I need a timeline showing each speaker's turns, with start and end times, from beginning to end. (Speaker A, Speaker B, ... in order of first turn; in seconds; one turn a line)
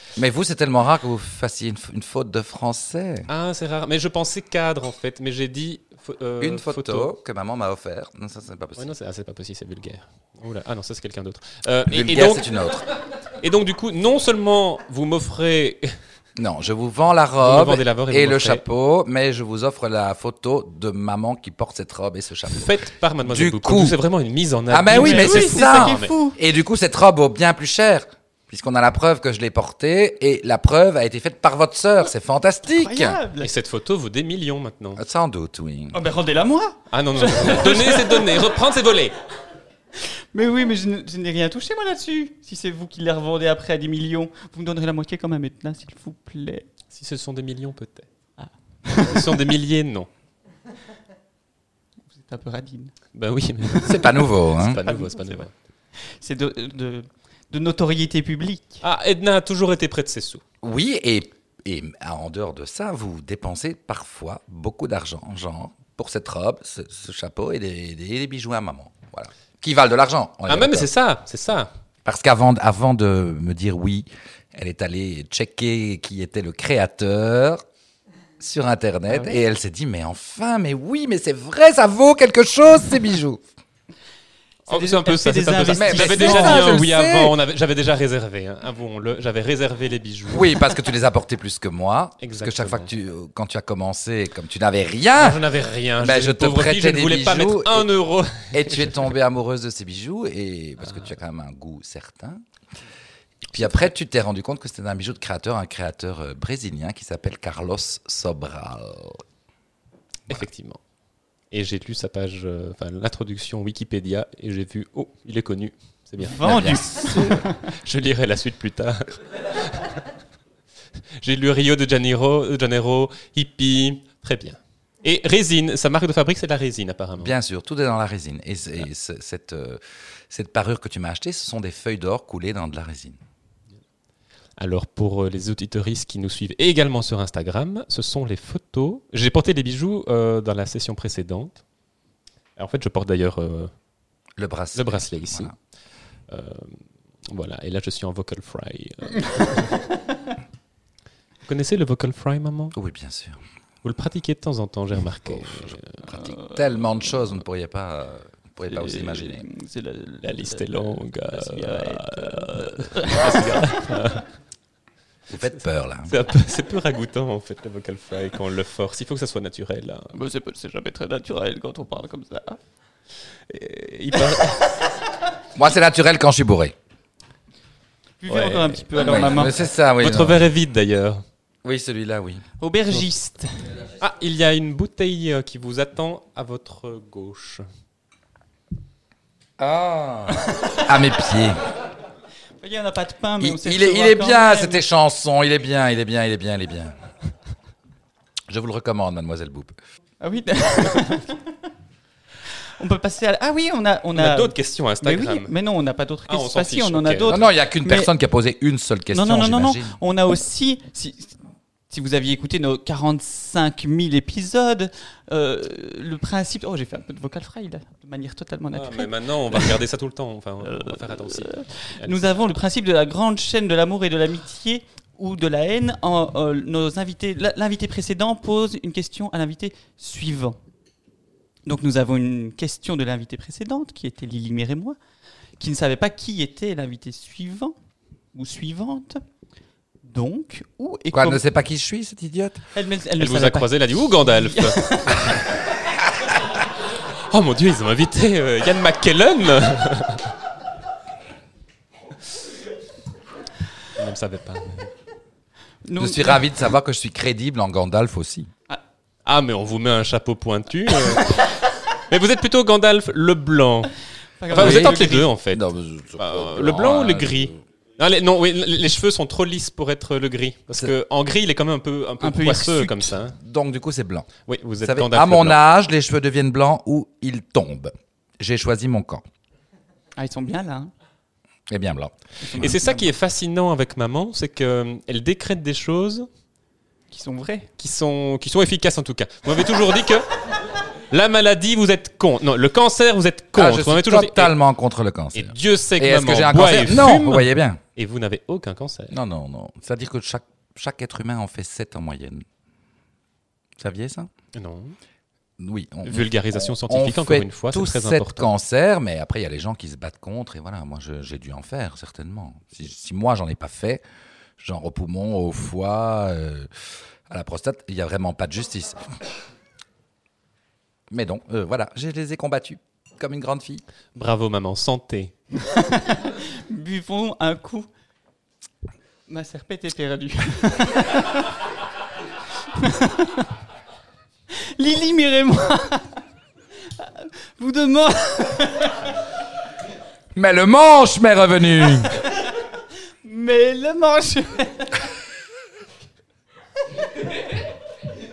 Speaker A: 0.2-3.3
Speaker B: 3.3-7.1
Speaker A: 6.4-8.9
Speaker B: 8.8-12.5
Speaker A: 11.9-12.8
Speaker B: 13.4-15.9
Speaker A: 16.4-24.0
Speaker B: 17.4-18.6
Speaker B: 22.5-26.1
Speaker A: 24.7-33.2
Speaker C: 24.9-26.4
Speaker C: 32.7-33.5
Speaker B: 33.4-35.0
Speaker A: 35.0-36.0
Speaker C: 35.9-38.5
Speaker B: 36.9-39.1
Speaker C: 40.0-46.7
Speaker B: 46.9-48.1
Speaker C: 48.4-49.5
Speaker B: 49.0-50.1
Speaker C: 52.1-52.9
Speaker B: 53.1-55.5
Speaker A: 53.8-54.8
Speaker C: 54.8-55.5
Speaker C: 56.1-58.8
Speaker B: 58.8-60.4
Speaker A: 60.6-70.9
Speaker B: 70.5-71.7
Speaker A: 72.0-77.6
Speaker A: 78.4-83.4
Speaker C: 79.1-79.3
Speaker C: 84.7-86.8
Speaker B: 84.7-90.6
Speaker A: 85.7-87.3
Speaker A: 90.3-95.4
Speaker B: 92.2-92.9
Speaker B: 95.2-99.1
Speaker A: 96.0-97.9
Speaker A: 98.5-102.4
Speaker A: 103.5-109.2
Speaker B: 103.5-103.8
Speaker B: 110.3-110.8
Speaker B: 111.5-120.0
Speaker C: 116.2-117.6
Speaker A: 116.4-117.4
Speaker B: 121.2-127.3
Speaker A: 127.2-133.2
Speaker B: 134.6-141.6
Speaker B: 142.6-143.7
Speaker A: 144.4-145.5
Speaker B: 144.7-145.5
Speaker B: 146.3-149.8
Speaker B: 151.4-152.7
Speaker A: 152.7-153.4
Speaker B: 153.8-156.1
Speaker A: 155.3-159.4
Speaker C: 156.2-156.6
Speaker C: 158.7-163.7
Speaker B: 160.2-164.2
Speaker A: 165.3-166.1
Speaker B: 166.1-170.1
Speaker C: 170.1-172.6
Speaker B: 173.5-174.7
Speaker C: 174.1-174.7
Speaker A: 175.6-176.7
Speaker C: 178.2-179.6
Speaker B: 178.3-181.2
Speaker A: 179.0-180.4
Speaker A: 181.6-182.4
Speaker C: 182.6-183.7
Speaker B: 184.0-187.6
Speaker A: 189.6-191.6
Speaker C: 192.6-194.8
Speaker A: 193.4-196.9
Speaker A: 198.5-199.7
Speaker C: 200.2-201.5
Speaker C: 202.8-208.1
Speaker B: 204.1-205.5
Speaker B: 206.3-207.4
Speaker A: 207.3-210.0
Speaker C: 209.1-219.8
Speaker B: 218.7-222.4
Speaker C: 220.6-230.6
Speaker C: 231.7-235.0
Speaker C: 235.6-237.8
Speaker C: 238.3-239.2
Speaker C: 240.0-241.4
Speaker A: 241.1-242.6
Speaker C: 242.7-245.4
Speaker B: 243.2-245.5
Speaker B: 247.2-250.3
Speaker B: 253.9-254.9
Speaker C: 255.8-256.5
Speaker A: 256.0-258.5
Speaker B: 259.2-263.9
Speaker C: 264.4-265.3
Speaker B: 264.5-265.6
Speaker A: 264.5-267.6
Speaker B: 266.2-273.4
Speaker C: 272.2-273.1
Speaker A: 273.4-274.3
Speaker B: 274.5-275.6
Speaker A: 274.8-279.2
Speaker C: 280.2-280.9
Speaker A: 281.7-282.7
Speaker C: 282.4-283.1
Speaker B: 282.6-286.3
Speaker C: 287.1-287.7
Speaker B: 287.8-290.4
Speaker B: 291.1-294.6
Speaker A: 293.5-297.8
Speaker B: 295.3-299.1
Speaker A: 299.1-302.4
Speaker A: 303.8-304.3
Speaker B: 304.5-304.9
Speaker A: 305.6-314.0
Speaker B: 306.0-308.5
Speaker A: 314.6-316.7
Speaker A: 317.3-319.0
Speaker A: 321.1-323.8
Speaker B: 324.1-325.3
Speaker C: 325.6-327.9
Speaker C: 329.3-331.6
Speaker C: 332.7-333.5
Speaker C: 334.5-336.2
Speaker C: 336.9-339.1
Speaker A: 340.3-342.2
Speaker C: 342.2-342.5
Speaker C: 343.2-345.0